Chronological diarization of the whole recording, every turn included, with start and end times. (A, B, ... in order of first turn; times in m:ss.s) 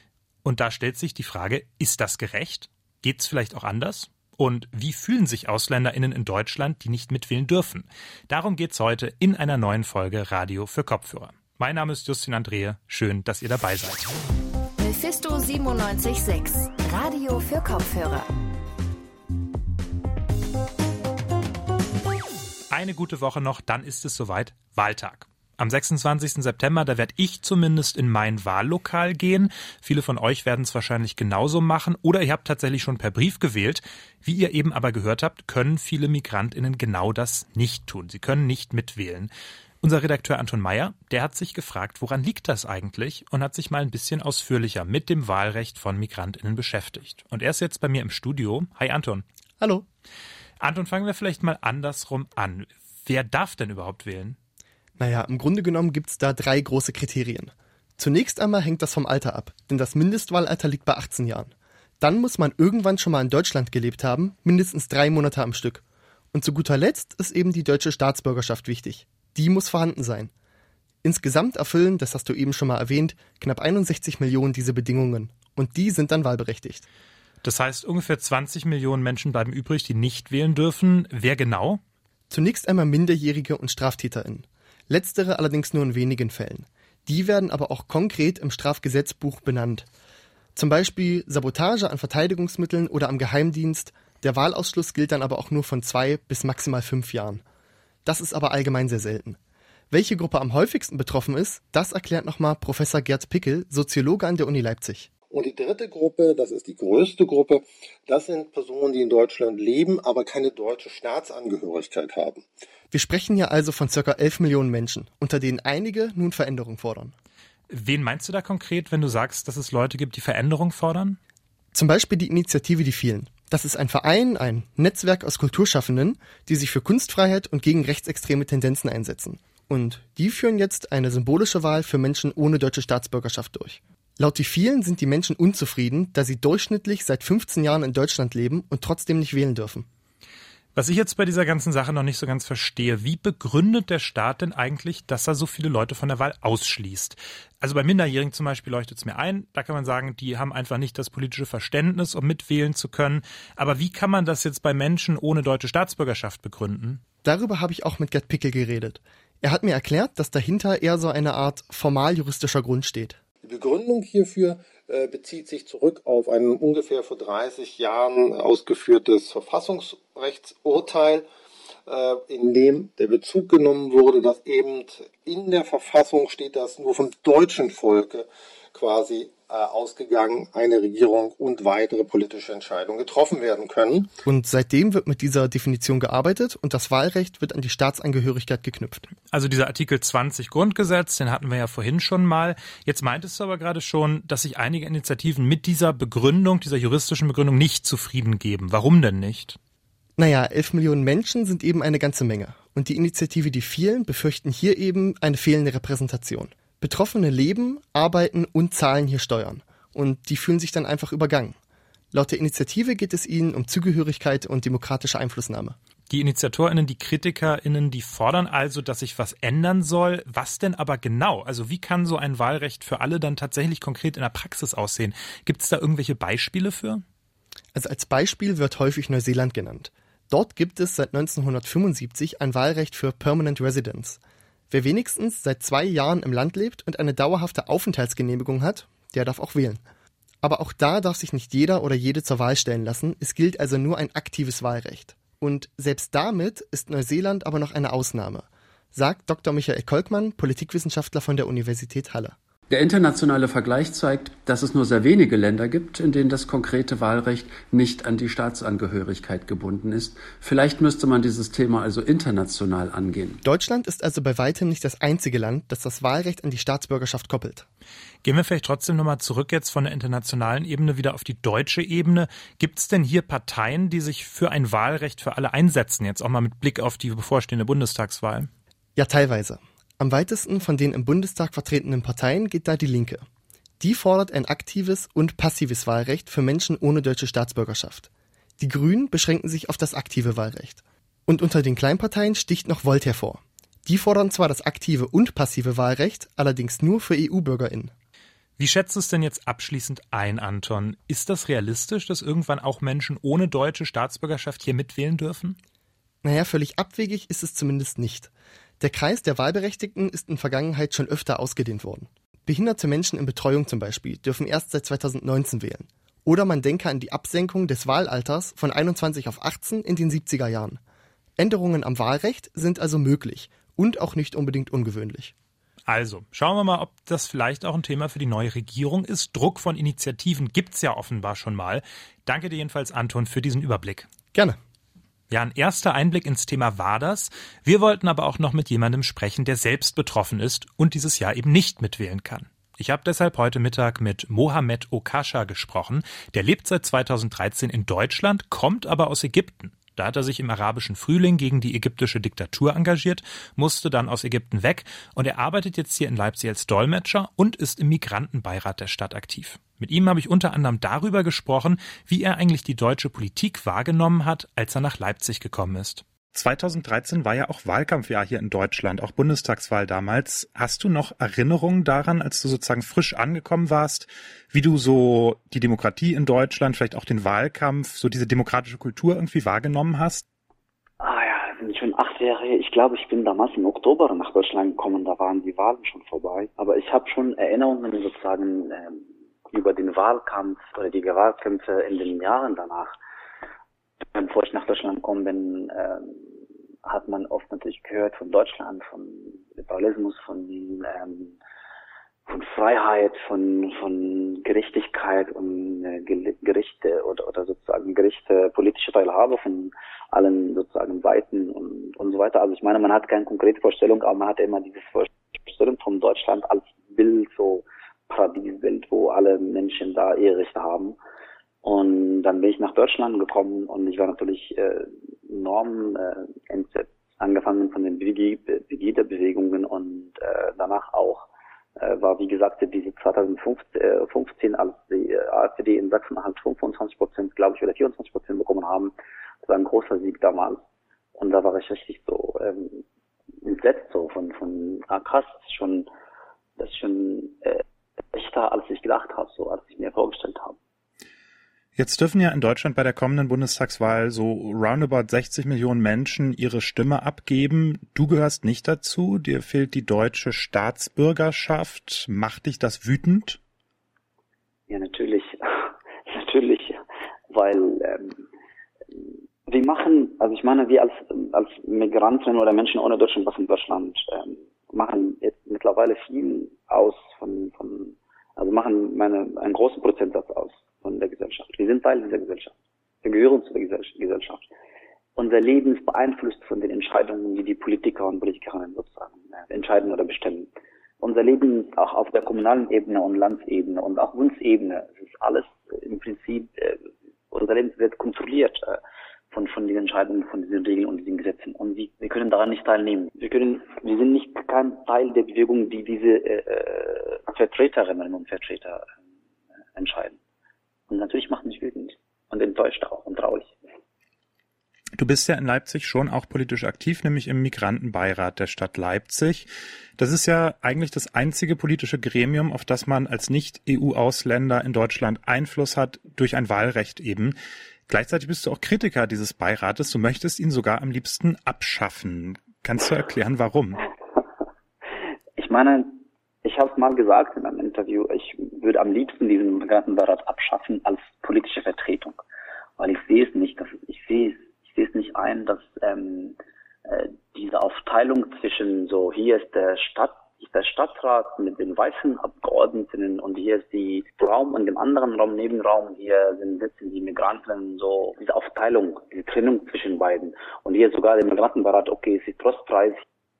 0:00.4-0:14.1 A
0:14.8-0:18.3 B
0:22.7-0:39.3 A
0:39.8-0:49.2 A
0:49.6-0:49.9 C
0:50.6-0:54.4 A
0:55.0-1:10.3 C
1:11.0-1:16.9 C
1:17.4-1:21.8 A
1:22.3-1:29.9 C
1:30.6-1:37.4 C
1:38.0-1:39.4 C
1:39.9-1:45.1 C
1:45.3-1:52.4 D
1:52.9-1:57.1 C
1:57.7-2:01.2 A
2:01.7-2:19.9 C
2:20.8-2:37.0 A
2:37.2-2:43.2 C
2:43.4-2:51.3 D
2:51.9-3:04.1 D
3:04.2-3:09.1 C
3:09.3-3:19.6 A
3:20.2-3:31.6 C
3:32.1-3:35.8 C
3:36.1-3:47.0 A
3:47.7-3:59.8 C
4:00.4-4:12.4 C
4:12.7-4:23.4 E
4:23.4-4:27.7 C
4:28.2-4:38.5 A
4:39.0-4:43.2 C
4:43.8-4:57.9 C
4:58.6-5:05.6 A
5:06.2-5:20.8 C
5:21.4-5:25.3 C
5:25.9-5:34.1 A
5:35.3-6:20.2 A
6:21.0-6:33.0 F
6:34.1-6:36.3 F
6:36.8-6:41.4 F
6:42.3-7:01.0 F
7:01.6-7:20.6 F
7:21.2-7:22.8 F
7:23.4-7:25.9 F
7:26.6-7:30.6 F
7:31.8-7:43.4 A
7:44.7-7:46.8 F
7:47.3-7:48.2 F
7:49.0-8:04.5 F
8:05.2-8:10.5 F
8:11.0-8:18.8 F
8:19.3-8:28.9 F
8:29.8-8:30.2 F
8:30.9-8:33.6 F
8:35.0-8:47.4 A
8:47.9-8:53.8 A
8:55.4-9:02.2 F
9:02.8-9:23.0 F